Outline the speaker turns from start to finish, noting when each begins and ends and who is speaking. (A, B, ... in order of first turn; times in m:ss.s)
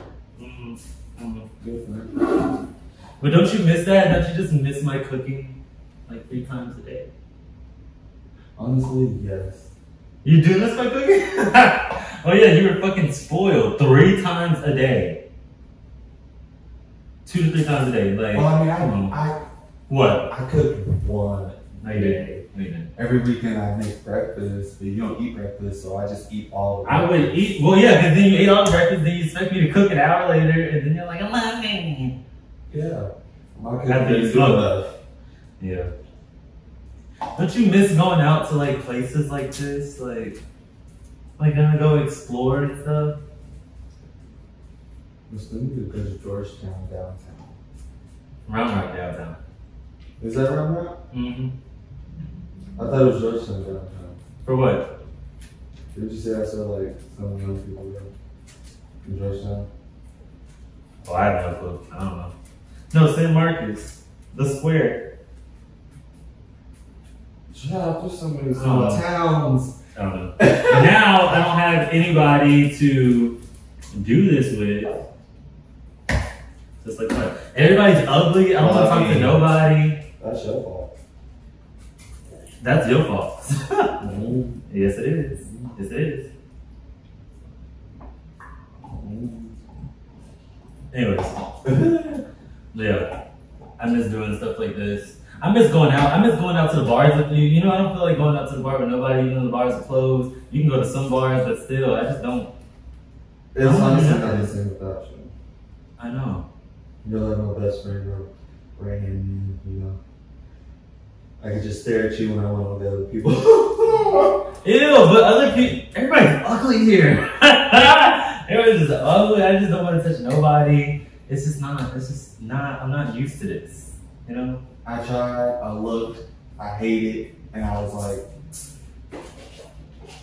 0:00.4-0:01.5 A
0:01.6-0:02.1 B
0:03.2-0:07.1 A
0:08.6-0:09.7 B
0:10.2-0:15.2 A
0:17.2-0:19.1 A
0:18.3-0:19.4 B
0:19.9-0:20.3 A
0:20.3-0:22.4 B
0:21.8-0:22.9 A
0:23.0-0:27.5 B
0:26.8-0:32.2 A
0:32.7-0:34.9 B
0:33.9-0:34.7 A
0:35.6-0:35.9 A
0:37.4-0:40.4 A
0:41.4-0:43.2 A
0:45.3-0:47.5 B
0:48.5-0:49.4 A
0:50.2-0:51.0 B
0:51.1-0:51.5 A
0:52.8-0:54.2 B
0:54.4-0:54.9 A
0:55.9-0:58.1 B
0:59.0-0:59.7 B
1:01.0-1:02.3 A
1:02.9-1:05.0 A
1:07.5-1:09.7 B
1:08.5-1:09.1 A
1:09.9-1:13.4 A
1:10.4-1:10.7 B
1:13.9-1:15.0 A
1:16.8-1:20.0 A
1:18.5-1:19.5 B
1:20.2-1:20.9 B
1:22.6-1:23.9 A
1:24.0-1:24.6 B
1:24.7-1:26.3 A
1:25.4-1:25.7 B
1:28.9-1:29.6 B
1:30.9-1:31.4 A
1:31.6-1:32.2 B
1:32.7-1:33.1 A
1:33.8-1:42.5 A
1:43.5-1:45.3 B
1:43.6-1:44.5 A
1:46.0-1:46.4 A
1:47.0-1:50.0 B
1:51.4-1:54.4 B
1:54.6-2:04.6 A
2:04.8-2:08.2 B